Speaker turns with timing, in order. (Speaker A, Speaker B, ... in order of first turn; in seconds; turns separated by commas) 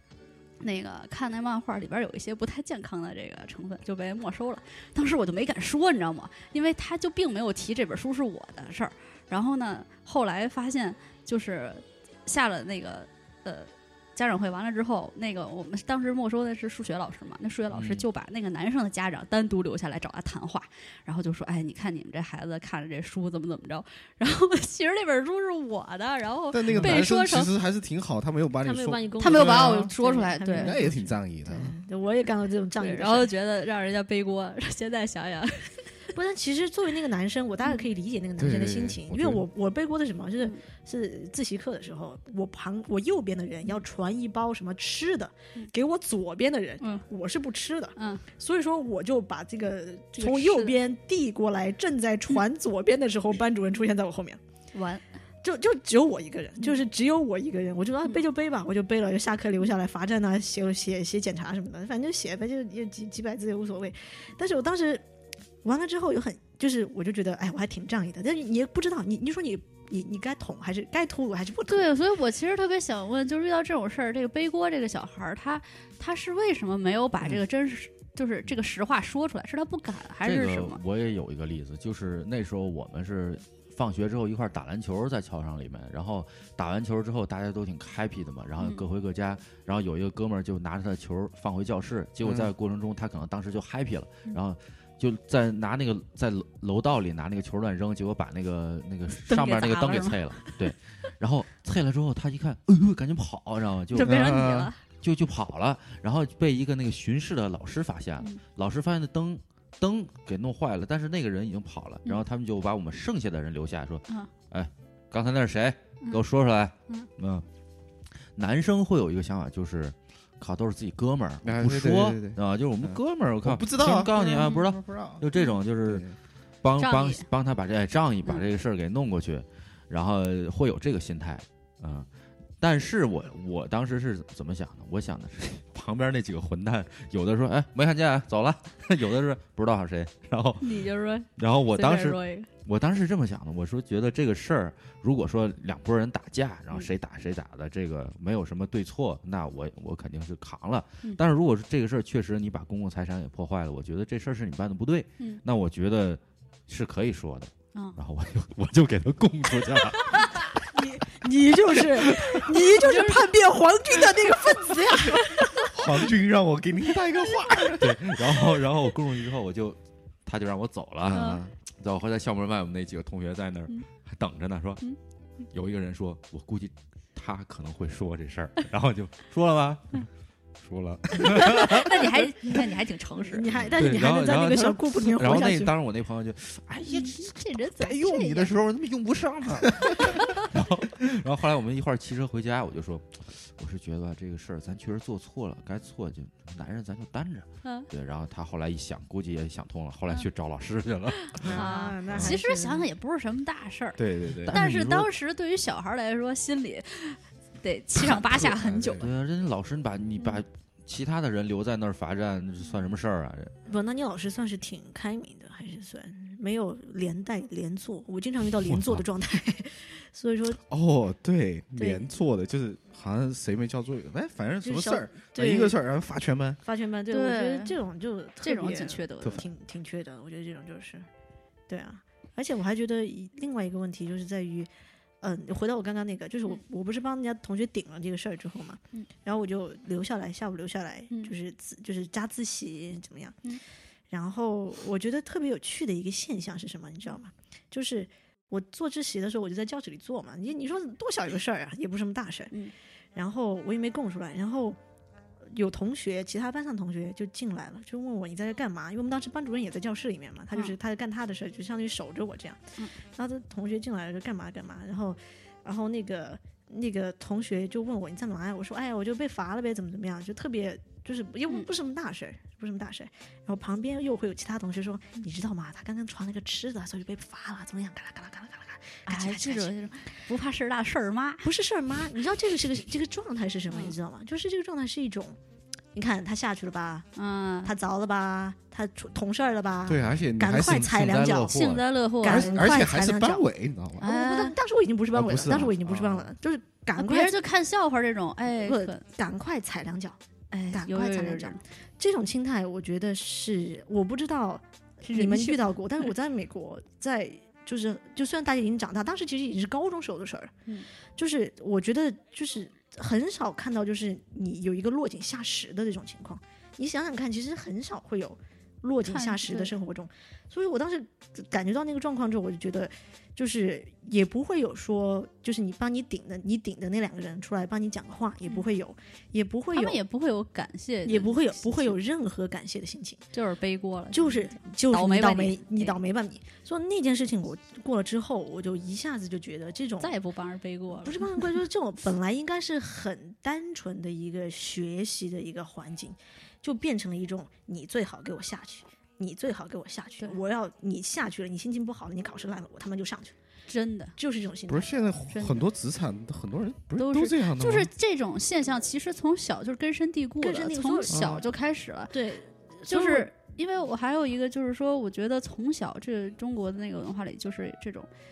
Speaker A: 0.6-27.5, Speaker B: 17.7-18.1, Speaker C: 26.5-29.9, Speaker D: 28.6-33.3, Speaker A: 29.2-30.8, Speaker C: 30.5-31.7, Speaker A: 32.8-36.0, Speaker D: 36.1-54.4, Speaker C: 38.4-39.5, Speaker A: 48.0-48.2, Speaker A: 50.2-50.8, Speaker A: 54.7-55.0, Speaker D: 55.4-65.0, Speaker D: 65.6-71.9, Speaker A: 71.7-80.8, Speaker B: 80.2-104.4, Speaker C: 92.2-92.5, Speaker A: 99.3-100.7, Speaker A: 103.9-104.8, Speaker C: 104.0-104.7, Speaker B: 105.0-117.5, Speaker B: 118.4-126.1, Speaker C: 121.4-125.3, Speaker A: 124.4-124.6, Speaker C: 125.8-126.1, Speaker B: 126.6-132.1, Speaker A: 126.8-127.2, Speaker B: 132.6-140.8, Speaker A: 140.6-142.5, Speaker B: 141.4-160.6, Speaker D: 160.7-165.7, Speaker A: 162.8-163.3, Speaker C: 165.7-168.4, Speaker B: 167.8-174.8, Speaker C: 171.1-171.5, Speaker A: 171.1-171.4, Speaker B: 175.5-180.1, Speaker B: 180.6-182.0, Speaker A: 181.2-183.4, Speaker D: 183.2-185.7, Speaker B: 183.5-201.5, Speaker A: 186.9-188.5, Speaker C: 189.6-190.0, Speaker A: 190.0-190.4, Speaker A: 201.4-204.0, Speaker C: 201.4-202.3, Speaker D: 201.5-202.9, Speaker C: 204.0-204.6, Speaker B: 204.4-205.1, Speaker A: 204.5-209.0, Speaker C: 208.3-209.1, Speaker B: 208.3-213.5, Speaker D: 213.7-220.6, Speaker B: 218.7-219.0, Speaker C: 220.6-226.6, Speaker D: 221.8-222.0, Speaker D: 224.6-225.8, Speaker D: 226.6-231.1, Speaker A: 227.1-227.8, Speaker A: 228.4-229.4, Speaker D: 231.7-243.4, Speaker D: 244.1-252.6, Speaker D: 253.2-254.8, Speaker D: 255.5-262.6, Speaker D: 263.1-279.7, Speaker A: 279.1-281.5, Speaker D: 281.4-285.4, Speaker D: 285.9-287.1, Speaker A: 287.2-287.7, Speaker D: 287.6-291.6, Speaker C: 289.9-294.1, Speaker A: 291.5-292.7, Speaker D: 292.2-293.5, Speaker D: 294.0-297.4, Speaker A: 294.0-294.6, Speaker C: 295.1-296.3, Speaker A: 297.0-299.0, Speaker D: 298.5-300.2, Speaker A: 300.5-301.6, Speaker D: 300.7-310.6, Speaker A: 305.0-306.1, Speaker D: 311.2-330.0, Speaker A: 319.1-319.7, Speaker A: 329.7-332.0, Speaker D: 331.1-333.2, Speaker A: 333.3-336.0, Speaker D: 334.1-340.1, Speaker A: 340.0-341.2, Speaker D: 341.0-353.4, Speaker A: 353.7-354.2, Speaker D: 354.2-354.9, Speaker C: 354.7-357.9, Speaker A: 355.3-355.6, Speaker A: 357.0-362.1, Speaker D: 360.4-361.4, Speaker C: 361.1-361.4, Speaker D: 362.1-363.3, Speaker A: 362.9-368.1